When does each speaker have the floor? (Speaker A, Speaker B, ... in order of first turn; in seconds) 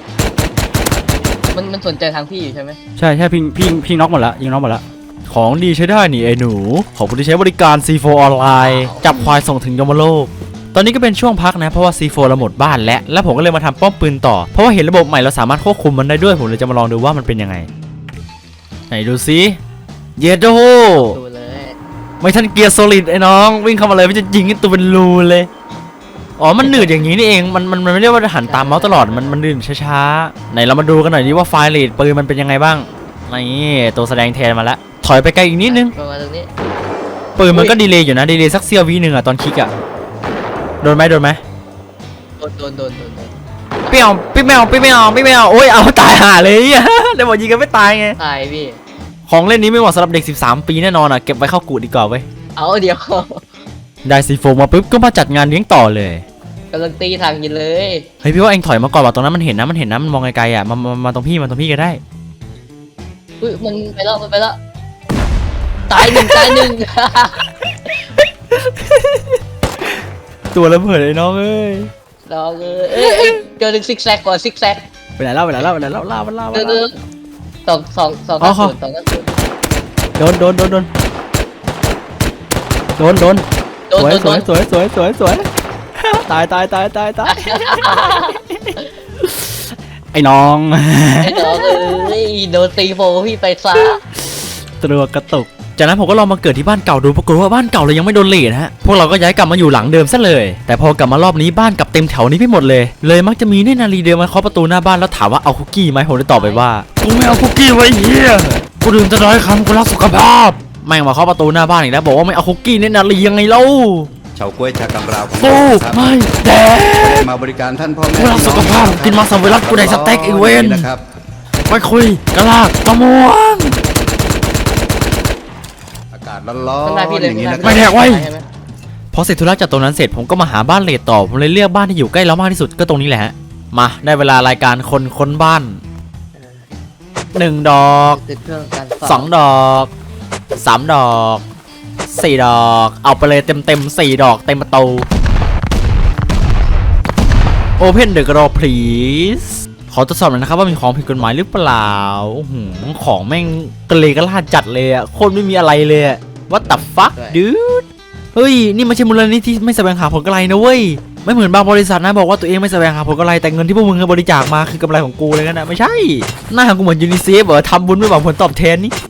Speaker A: 1.5-2.8, 8.6-9.3, 20.9-21.8, 28.5-29.4, 35.7-36.5, 42.4-43.3, 48.2-48.8, 52.6-53.4, 56.7-58.1, 63.4-64.6, 65.9-67.5, 72.3-74.9, 76.5-76.9, 77.7-79.3, 83.9-84.5, 87.3-88.9, 91.2-94.0, 106.3-107.5, 126.8-128.4, 136.4-136.7, 138.1-139.3, 157.1-157.4
Speaker B: 3.0-17.7, 18.9-19.6, 20.2-21.2, 22.2-25.5, 26.4-35.9, 37.4-39.7, 40.8-41.4, 43.9-48.2, 49.3-52.2, 54.0-56.2, 58.2-62.0, 65.9-66.8, 68.5-69.4, 70.5-71.9, 73.0-73.4, 75.2-76.8, 78.4-78.7, 80.2-80.9, 83.0-83.5, 84.0-85.5, 86.0-89.4, 90.1-92.1, 93.9-114.1, 115.4-117.3, 118.2-120.9, 121.7-123.8, 127.6-128.3, 129.1-135.8, 137.3-138.2, 139.0-139.9, 140.6-141.4, 142.1-145.1, 147.8-168.9
Speaker C: 114.3-116.0, 117.0-121.0, 126.1-127.8